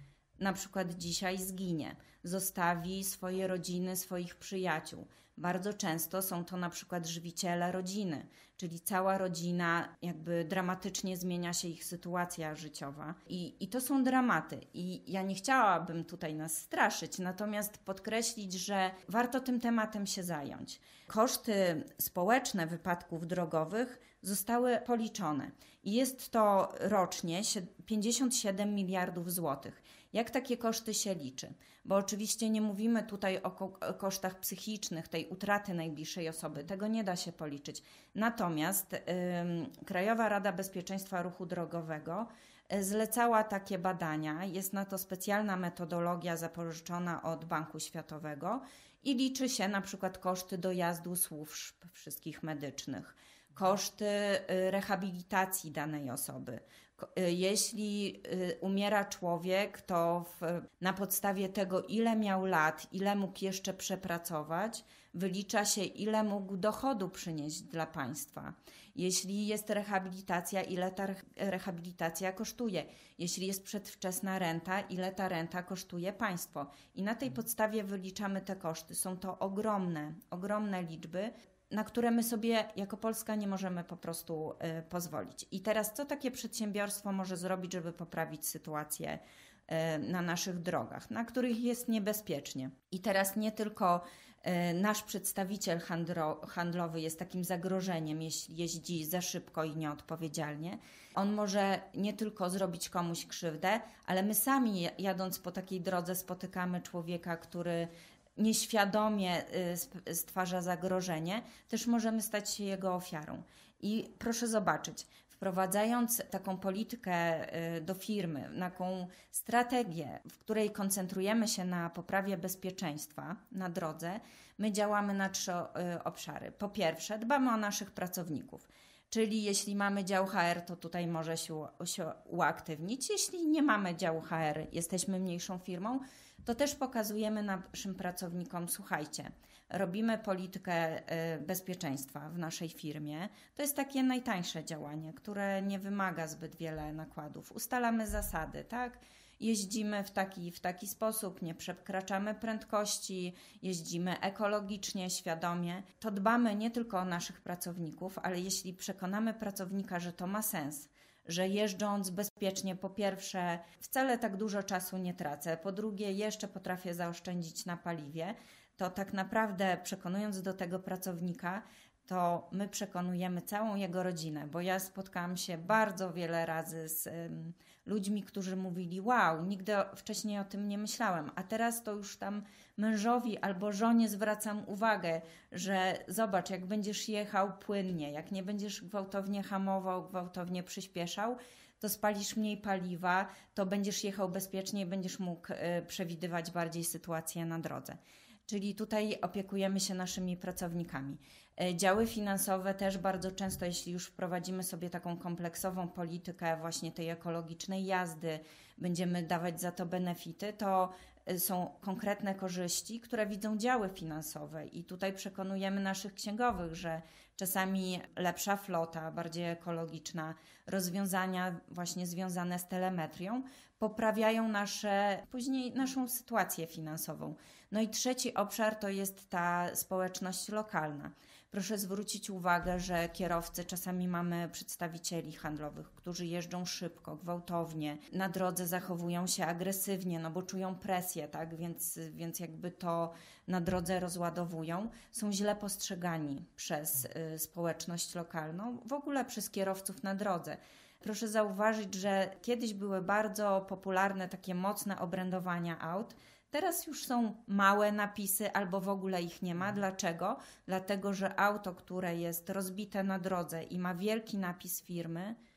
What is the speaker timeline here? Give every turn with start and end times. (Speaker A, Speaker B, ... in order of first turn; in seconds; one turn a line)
Speaker A: 0.4-265.4